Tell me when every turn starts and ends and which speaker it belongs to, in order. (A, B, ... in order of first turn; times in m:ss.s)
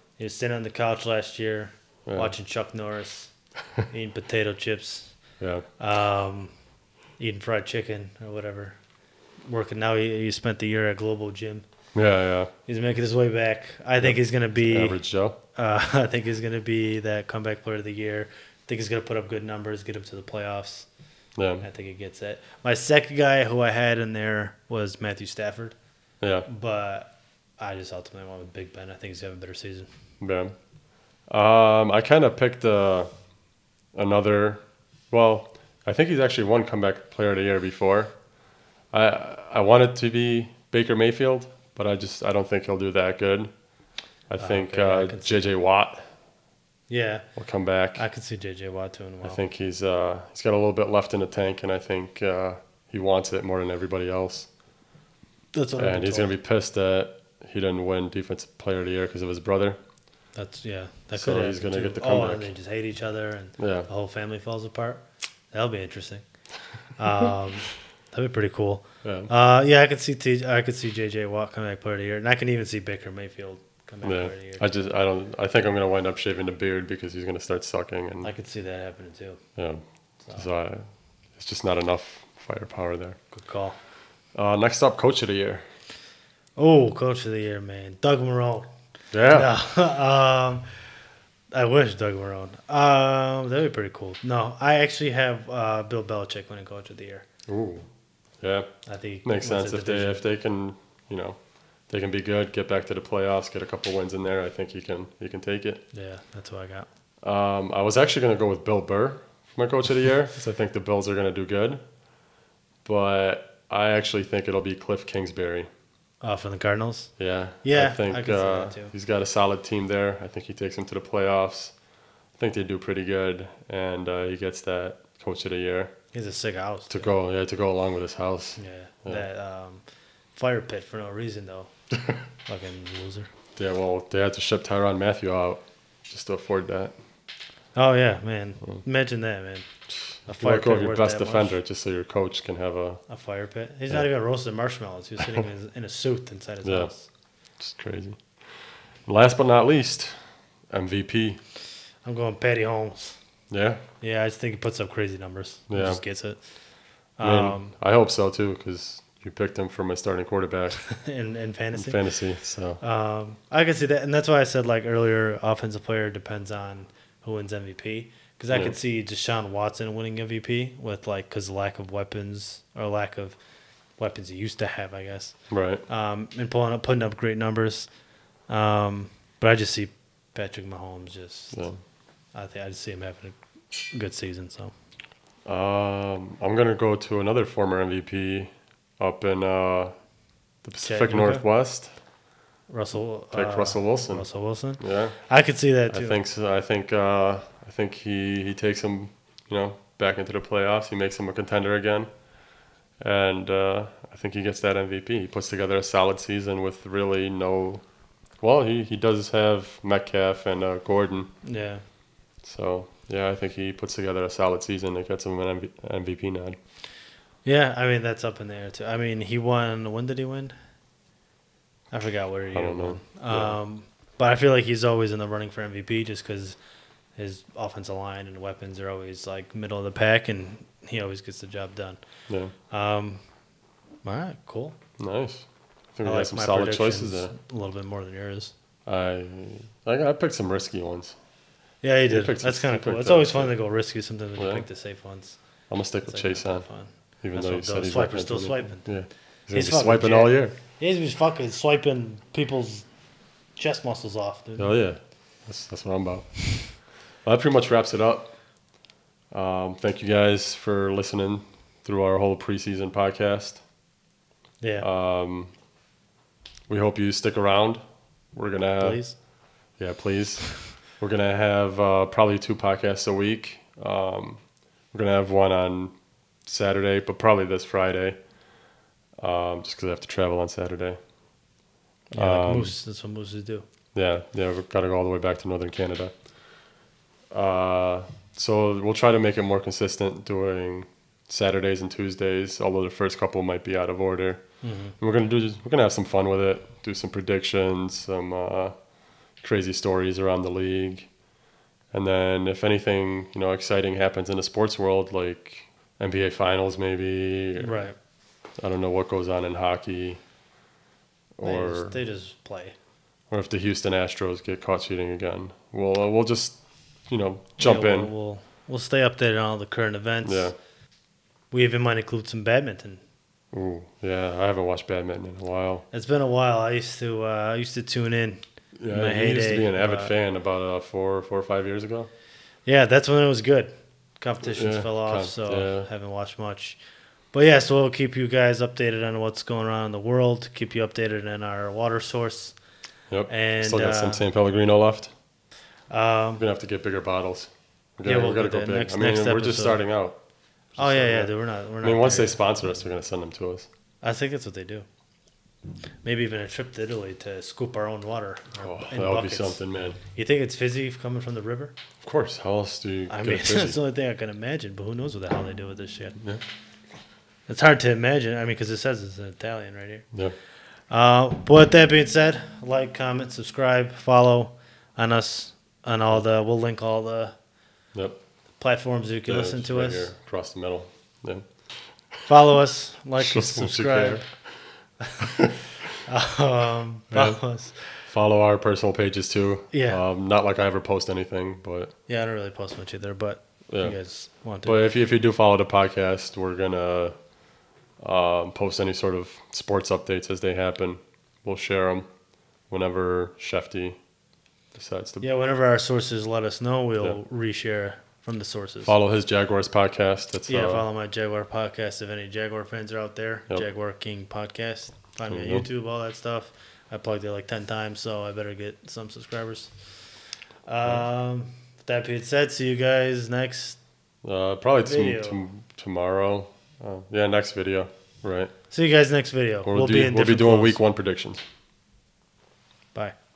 0:00.2-0:03.3 A
0:02.0-0:02.3 B
0:03.9-0:05.1 A
0:05.4-0:05.6 B
0:05.8-0:06.5 A
0:07.2-0:08.8 A
0:09.4-0:11.6 A
0:11.9-0:12.5 B
0:12.6-0:20.9 A
0:14.0-0:15.4 B
0:21.4-0:21.6 B
0:21.6-0:25.7 A
0:26.2-0:26.5 B
0:26.5-0:29.9 A
0:30.2-0:30.5 B
0:31.3-0:33.1 B
0:33.9-0:38.1 B
0:38.9-0:43.5 B
0:44.3-0:46.0 B
0:44.4-0:45.6 A
0:46.9-0:47.3 A
0:47.4-0:48.0 B
0:47.9-0:49.4 A
0:49.2-0:54.5 B
0:55.5-0:56.3 A
0:55.8-0:59.8 B
1:00.3-1:06.2 A
1:01.1-1:02.5 B
1:03.6-1:03.9 B
1:07.0-1:14.7 A
1:09.0-1:09.3 B
1:14.0-1:18.3 B
1:18.2-1:19.4 A
1:19.6-1:19.8 B
1:20.3-1:20.8 B
1:21.4-1:23.2 B
1:23.3-1:23.8 A
1:24.3-1:25.6 B
1:26.6-1:28.7 A
1:29.1-1:29.5 B
1:29.2-1:30.9 A
1:31.5-1:37.2 A
1:37.5-1:37.8 B
1:38.4-1:45.8 B
1:38.8-1:40.2 A
1:45.9-1:46.9 A
1:47.2-1:51.8 B
1:52.8-1:55.7 B
1:56.2-1:57.1 A
1:57.2-2:01.7 B
1:57.6-1:58.9 A
2:02.4-2:05.9 B
2:06.1-2:07.1 A
2:06.9-2:09.2 B
2:08.6-2:09.8 A
2:10.4-2:11.7 A
2:12.4-2:13.3 A
2:13.6-2:16.9 B
2:17.7-2:19.6 A
2:20.2-2:21.6 A
2:20.3-2:23.0 B
2:23.1-2:27.1 A
2:26.6-2:26.9 B
2:27.6-2:28.4 B
2:29.0-2:31.4 B
2:32.0-2:33.2 A
2:33.5-2:33.8 B
2:34.0-2:36.4 A
2:35.7-2:36.0 B
2:37.2-2:37.7 A
2:37.2-2:40.8 B
2:40.9-2:42.0 A
2:41.7-2:42.8 B
2:42.8-2:53.4 A
2:54.0-2:55.3 A
2:55.5-2:55.8 B
2:55.9-2:57.9 A
2:58.5-3:01.7 A
3:02.3-3:03.4 A
3:03.9-3:04.7 A
3:05.4-3:09.9 B
3:10.6-3:11.9 B
3:10.8-3:11.4 A
3:12.7-3:16.2 A
3:13.3-3:14.3 B
3:14.8-3:15.2 B
3:15.9-3:22.1 B
3:23.0-3:27.8 B
3:28.4-3:31.3 B
3:31.4-3:31.8 A
3:32.4-3:36.6 B
3:37.4-3:40.5 A
3:41.9-3:46.6 A
3:42.5-3:43.6 B
3:47.2-3:52.0 A
3:52.3-3:52.5 B
3:52.7-3:53.2 A
3:54.0-3:54.8 A
3:55.0-3:57.3 B
3:56.0-3:58.5 A
3:58.8-4:01.2 B
4:01.8-4:05.4 A
4:02.1-4:03.5 B
4:04.4-4:04.6 B
4:05.7-4:06.7 B
4:06.0-4:08.9 A
4:07.2-4:10.5 B
4:09.5-4:12.8 A
4:13.6-4:14.7 A
4:14.6-4:18.4 B
4:19.3-4:23.6 B
4:24.6-4:24.9 A
4:24.8-4:25.5 B
4:26.7-4:27.8 B
4:28.3-4:29.0 B
4:28.8-4:29.1 A
4:29.8-4:38.2 B
4:39.2-4:41.0 B
4:42.1-4:42.7 B
4:42.1-4:43.6 A
4:43.9-4:46.1 B
4:47.3-4:54.4 B
4:54.6-4:54.9 A
4:55.0-4:58.7 B
4:59.4-5:01.1 B
5:01.9-5:07.8 B
5:07.6-5:07.9 A
5:08.6-5:10.2 B
5:11.4-5:12.0 B
5:11.4-5:12.7 A
5:13.3-5:18.1 B
5:17.6-5:20.5 A
5:20.2-5:20.5 B
5:21.5-5:23.0 A
5:23.5-5:25.8 B
5:25.9-5:30.1 A
5:28.8-5:32.1 B
5:32.6-5:36.8 A
5:34.4-5:35.9 B
5:37.3-5:42.5 A
5:43.1-5:45.1 B
5:43.3-5:44.3 A
5:45.9-5:46.4 A
5:46.4-5:50.2 B
5:48.0-5:49.8 A
5:50.7-5:53.7 B
5:50.8-5:52.4 A
5:54.0-5:54.8 A
5:56.0-6:01.7 A
5:58.6-6:00.0 B
6:02.0-6:03.8 B
6:03.1-6:06.2 A
6:07.5-6:10.0 A
6:10.9-6:17.3 A
6:17.9-6:18.2 B
6:18.6-6:20.1 A
6:19.3-6:21.4 B
6:22.3-6:24.2 A
6:23.2-6:24.2 B
6:25.0-6:25.4 A
6:25.3-6:25.5 B
6:26.0-6:27.9 A
6:27.1-6:27.4 B
6:28.0-6:31.9 B
6:29.7-6:30.0 A
6:32.1-6:34.8 A
6:33.7-6:34.0 B
6:34.6-6:37.2 B
6:38.0-6:42.1 B
6:42.7-6:44.0 B
6:44.8-6:45.2 B
6:45.2-6:48.9 A
6:48.8-6:50.8 B
6:50.5-6:59.9 A
6:55.2-6:55.7 B
7:00.7-7:03.8 A
7:04.2-7:08.5 B
7:04.8-7:05.4 A
7:08.7-7:10.8 A
7:09.6-7:11.4 B